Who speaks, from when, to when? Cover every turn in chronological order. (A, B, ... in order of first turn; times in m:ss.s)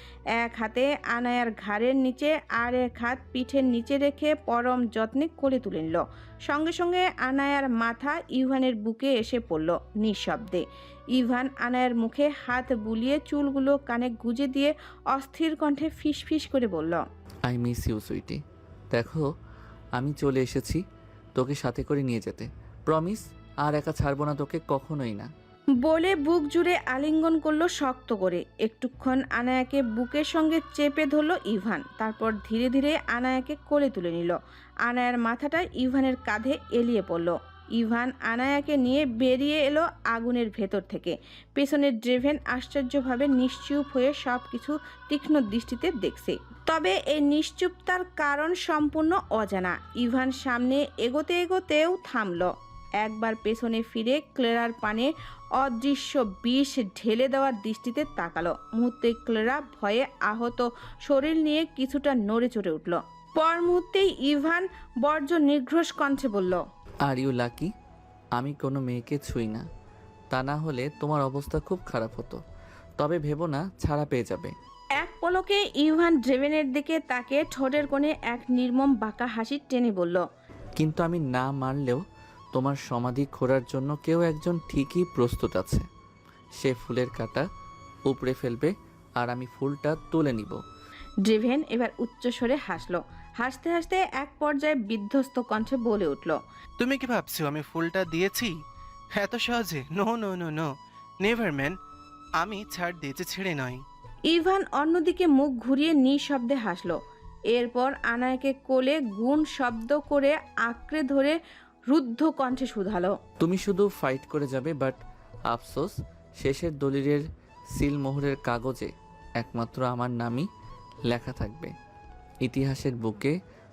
0:00.3-0:10.6 A
0:11.1-0:17.0 A
0:17.4-0:19.3 B
0:20.0-0:20.8 B
0:21.3-0:25.3 B
0:25.8-0:52.5 A
0:53.0-1:06.6 A
1:07.0-1:07.7 B
1:08.4-1:09.6 B
1:10.3-1:12.4 B
1:13.0-1:14.5 B
1:15.0-1:20.2 A
1:20.8-1:22.0 B
1:22.5-1:25.8 B
1:26.6-1:27.5 B
1:28.1-1:30.6 B
1:31.2-1:36.4 A
1:36.8-1:38.5 C
1:39.2-1:40.7 C
1:41.2-1:41.7 C
1:42.4-1:43.8 C
1:44.3-1:47.0 A
1:47.5-1:51.4 A
1:51.9-1:53.1 A
1:53.4-2:00.5 B
2:01.1-2:01.7 B
2:02.4-2:03.4 B